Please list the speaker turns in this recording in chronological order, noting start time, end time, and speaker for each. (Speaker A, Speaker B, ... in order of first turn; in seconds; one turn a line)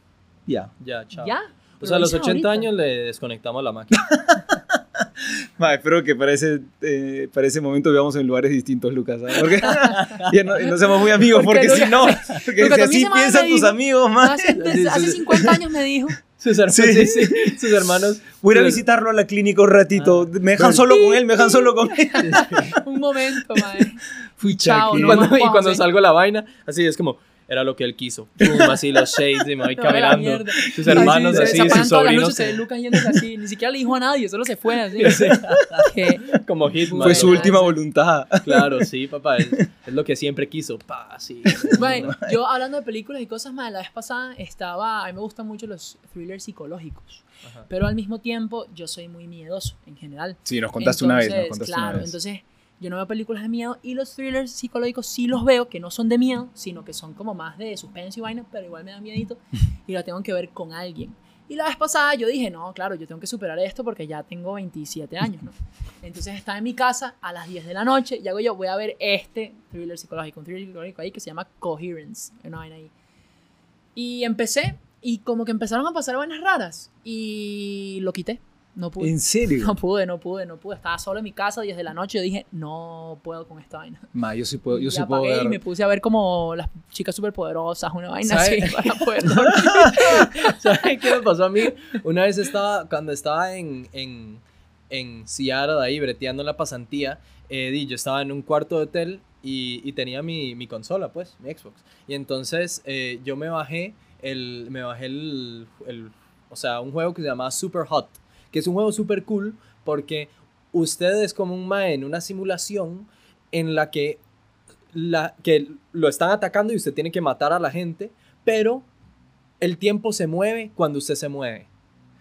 Speaker A: 0.5-0.7
Speaker B: 0.8-4.1
Speaker C: 1.2-2.7
Speaker A: 3.9-14.6
Speaker B: 9.8-10.4
Speaker C: 11.2-16.2
Speaker B: 14.6-15.4
Speaker A: 15.3-15.6
Speaker B: 16.4-18.9
Speaker A: 16.7-17.9
Speaker A: 18.4-22.8
Speaker B: 19.9-20.9
Speaker C: 20.9-25.8
Speaker B: 22.2-22.7
Speaker A: 24.4-25.3
Speaker B: 24.9-32.6
Speaker A: 28.5-28.7
Speaker C: 29.8-35.3
Speaker A: 30.8-31.8
Speaker B: 35.0-37.6
Speaker A: 35.0-35.9
Speaker C: 35.9-37.8
Speaker A: 36.9-38.9
Speaker B: 38.4-42.1
Speaker A: 41.6-42.4
Speaker C: 41.7-72.9
Speaker A: 50.5-52.1
Speaker C: 74.0-84.1
Speaker A: 79.0-79.8
Speaker A: 84.1-85.6
Speaker C: 84.7-90.8
Speaker B: 88.2-89.2
Speaker A: 89.3-90.0
Speaker B: 89.9-114.2
Speaker B: 114.9-118.9
Speaker B: 119.6-121.7